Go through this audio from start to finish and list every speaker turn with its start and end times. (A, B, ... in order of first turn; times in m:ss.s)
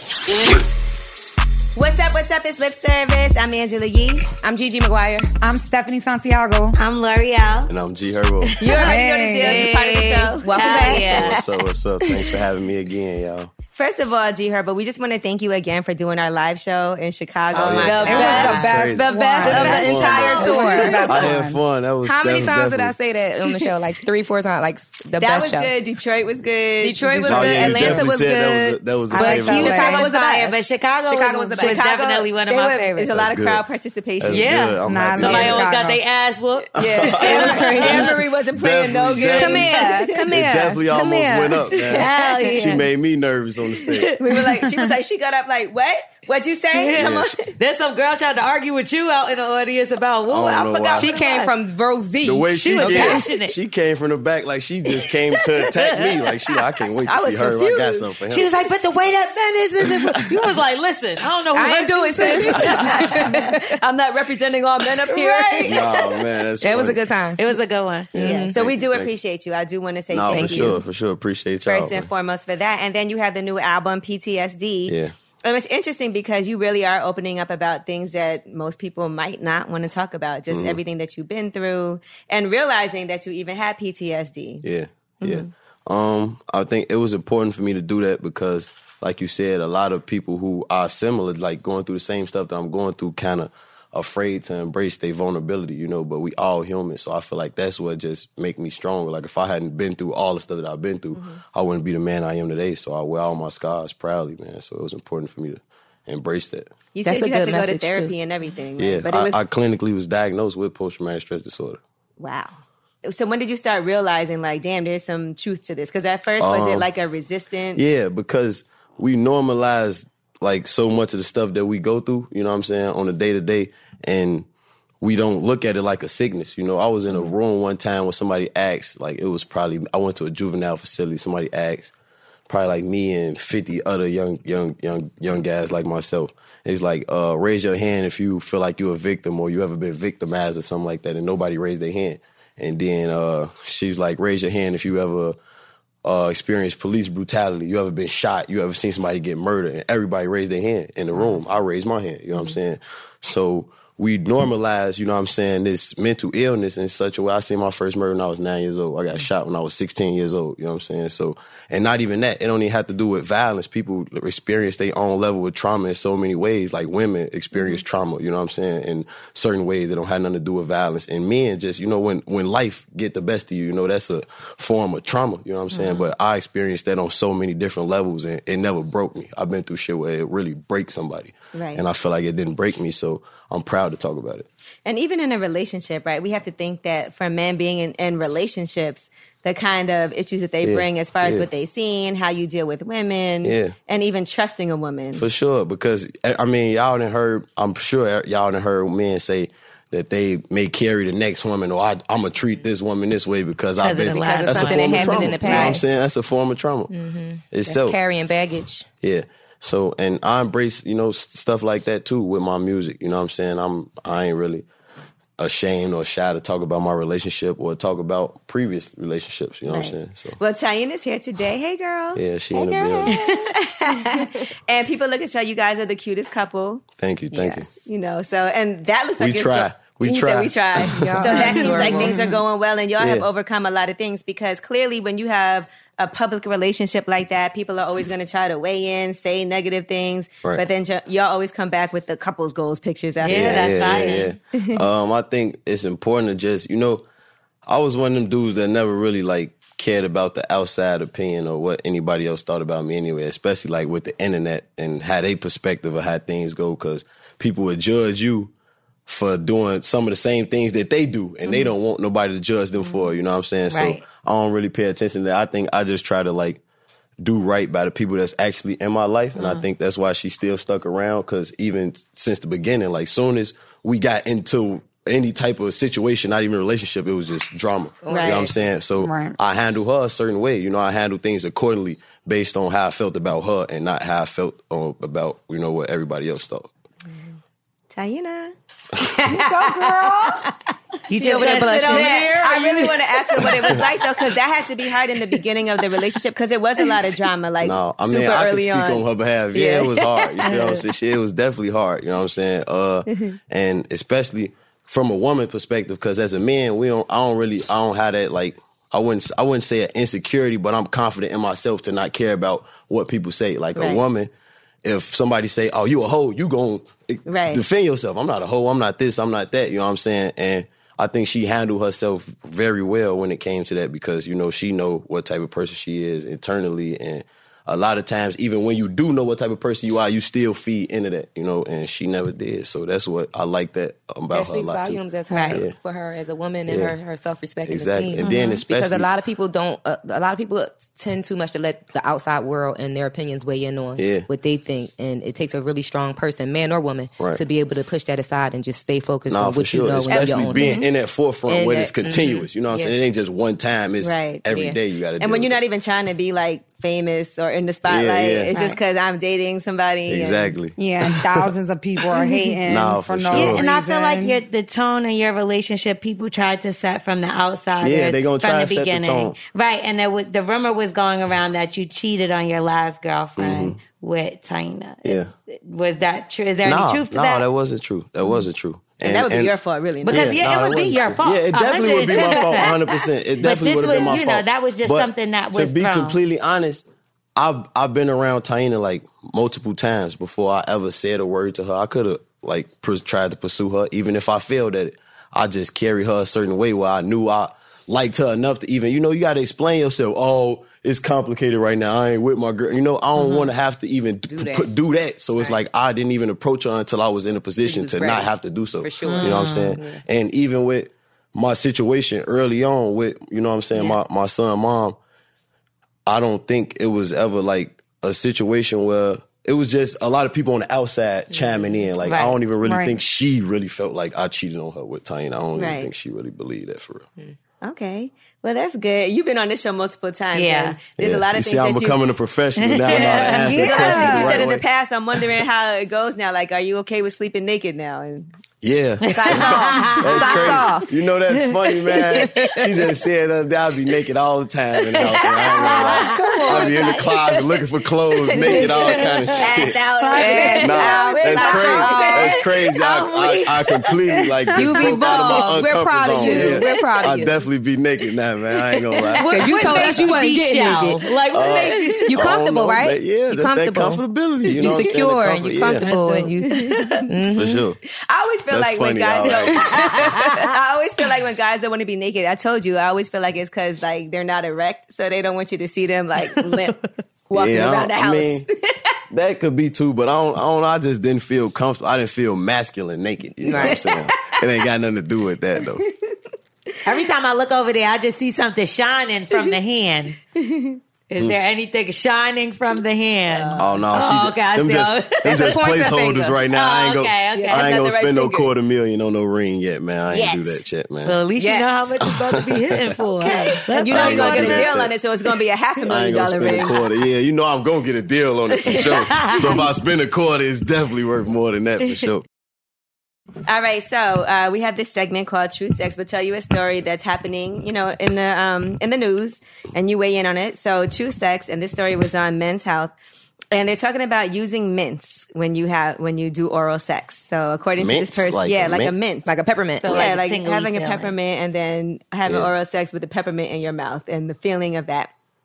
0:01.8-0:04.2 A
0:04.4-0:05.3 B
0:05.4-0:06.8 C
0:06.8-0:07.7 D
0:07.7-0:08.6 E
0:08.6-0:11.4 A
0:08.8-0:09.7 C
0:09.4-0:11.3 B
0:10.5-0:11.4 D
0:10.9-0:13.5 E
0:13.8-0:18.7 A
0:17.5-0:20.5 E
0:17.8-0:21.3 B
0:18.1-0:21.6 C
0:20.0-0:21.1 A
0:21.1-0:22.9 E
0:22.0-0:25.7 B
0:25.2-0:28.0 A
0:26.8-0:31.8 B
0:27.2-0:29.9 E
0:29.1-0:30.1 C
0:29.6-0:33.1 D
0:31.6-0:34.5 A
0:33.1-0:33.6 E
0:34.2-0:35.6 E
0:34.3-0:38.1 D
0:34.8-0:36.0 C
0:36.8-0:40.3 A
0:36.8-0:44.2 E
0:37.2-0:38.2 B
0:39.4-0:41.8 B
0:41.9-0:42.8 D
0:44.2-0:47.5 A
0:46.7-0:51.5 D
0:47.0-0:47.4 E
0:50.3-0:51.1 E
0:50.9-0:53.3 B
0:52.2-0:58.7 E
0:52.5-0:53.5 D
0:55.6-0:56.1 D
0:57.0-0:58.1 A
0:58.3-1:03.4 D
0:59.8-1:00.2 E
1:01.5-1:03.8 B
1:02.6-1:05.9 A
1:05.2-1:05.7 D
1:05.6-1:07.0 E
1:06.6-1:07.4 B
1:07.4-1:08.2 D
1:08.1-1:09.1 E
1:08.2-1:08.5 B
1:08.2-1:10.8 A
1:10.1-1:12.1 E
1:10.3-1:10.8 B
1:11.7-1:24.6 A
1:14.8-1:15.1 E
1:20.5-1:20.8 E
1:24.6-1:46.8 E
1:25.2-1:25.5 A
1:41.2-1:41.4 A
1:46.9-1:49.4 A
1:47.0-1:48.1 B
1:48.8-1:51.8 E
1:52.2-1:57.8 A
1:56.4-1:56.9 E
1:57.8-2:04.5 E
2:05.0-2:11.9 E
2:12.5-2:25.4 E
2:26.0-3:04.5 E
3:01.5-3:01.8 A
3:04.8-3:15.3 A
3:10.6-3:11.5 E
3:13.4-3:13.7 E
3:15.1-3:26.9 E
3:23.8-3:25.8 D
3:24.1-3:25.8 B
3:26.9-3:28.9 B
3:27.5-3:28.0 E
3:29.0-3:34.7 E
3:35.4-3:40.4 E
3:39.7-3:42.2 A
3:42.2-3:43.1 E
3:42.5-3:43.5 B
3:43.1-3:46.8 A
3:47.0-3:47.7 E
3:47.3-3:47.8 B
3:47.8-4:03.9 A
3:49.2-3:51.5 E
3:51.0-3:52.2 B
3:51.3-3:52.4 C
3:53.0-3:53.3 E
4:03.2-4:04.3 D
4:03.3-4:07.0 E
4:04.5-4:04.8 A
4:07.7-4:18.5 E
4:19.0-4:26.6 E
4:23.7-4:24.0 D
4:27.2-4:46.7 E
4:38.1-4:38.5 B
4:38.1-4:38.5 A
4:39.0-4:39.4 C
4:47.9-4:48.5 A
4:49.2-4:50.5 C
4:49.5-4:50.5 D
4:51.1-4:53.9 D
4:51.1-4:52.1 B
4:51.4-5:00.0 A
4:57.6-5:14.3 E
5:00.4-5:00.8 D
5:13.8-5:14.0 A
5:14.8-5:35.8 E
5:17.2-5:17.6 A
5:34.3-5:50.9 B
5:35.3-5:35.6 D
5:36.7-5:37.0 E
5:37.6-5:39.1 E
5:44.0-5:44.3 E
5:49.3-5:55.6 E
5:50.1-5:50.8 A
5:51.5-5:52.4 B
5:54.0-5:54.4 A
5:54.5-5:54.8 B
5:55.2-6:00.5 A
5:57.9-5:58.5 E
6:00.1-6:01.5 E
6:00.8-6:04.4 C
6:02.7-6:03.6 E
6:03.3-6:17.5 D
6:07.8-6:09.4 E
6:13.4-6:13.8 E
6:15.0-6:15.3 E
6:16.6-6:26.8 E
6:19.0-6:20.4 A
6:20.0-6:26.2 D
6:22.2-6:22.6 A
6:27.4-6:55.0 E
6:43.2-6:43.5 D
6:44.3-6:44.7 B
6:47.6-6:50.0 B
6:49.0-6:49.8 D
6:56.0-7:07.1 E
7:02.0-7:02.4 D
7:02.6-7:03.0 C
7:05.6-7:05.9 A
7:07.6-7:12.0 A
7:10.4-7:10.8 D
7:11.0-7:14.6 E
7:12.6-7:13.5 D
7:13.0-7:18.3 A
7:13.4-7:14.4 C
7:18.6-7:29.8 E
7:19.0-7:20.5 D
7:19.1-7:20.9 B
7:22.2-7:22.7 B
7:25.1-7:26.9 A
7:25.2-7:26.8 D
7:28.3-7:32.7 A
7:30.0-7:30.6 C
7:30.1-7:32.4 B
7:30.5-7:39.5 E
7:32.7-7:33.6 D
7:34.6-7:37.4 B
7:39.0-7:40.5 A
7:39.2-7:42.3 D
7:39.3-7:41.0 B
7:41.2-7:42.1 A
7:41.3-7:45.9 E
7:42.1-7:44.0 B
7:44.5-7:47.7 B
7:44.6-7:44.9 A
7:45.8-7:46.5 D
7:46.4-7:47.1 A
7:47.3-7:47.8 E
7:48.0-7:56.8 A
7:48.5-7:50.2 E
7:49.9-7:50.3 D
7:56.3-7:56.7 D
7:57.3-7:58.5 A
7:57.3-7:58.5 E
7:59.1-8:05.8 E
8:03.4-8:03.8 B
8:03.5-8:04.1 A
8:06.8-8:10.2 D
8:10.4-8:10.8 A
8:11.1-8:15.5 D
8:13.3-8:14.2 A
8:13.6-8:21.2 E
8:15.2-8:16.4 B
8:16.5-8:17.8 D
8:17.3-8:18.5 A
8:20.1-8:20.6 A
8:21.0-8:24.8 D
8:21.4-8:21.7 B
8:22.0-8:22.9 E
8:23.2-8:26.8 A
8:23.8-8:24.9 E
8:25.9-8:32.2 E
8:28.7-8:29.6 D
8:33.4-8:42.9 A
8:43.5-8:49.3 A
8:47.8-8:48.9 E
8:49.2-8:50.1 B
8:49.8-8:51.1 D
8:49.9-8:55.1 A
8:52.2-8:52.5 E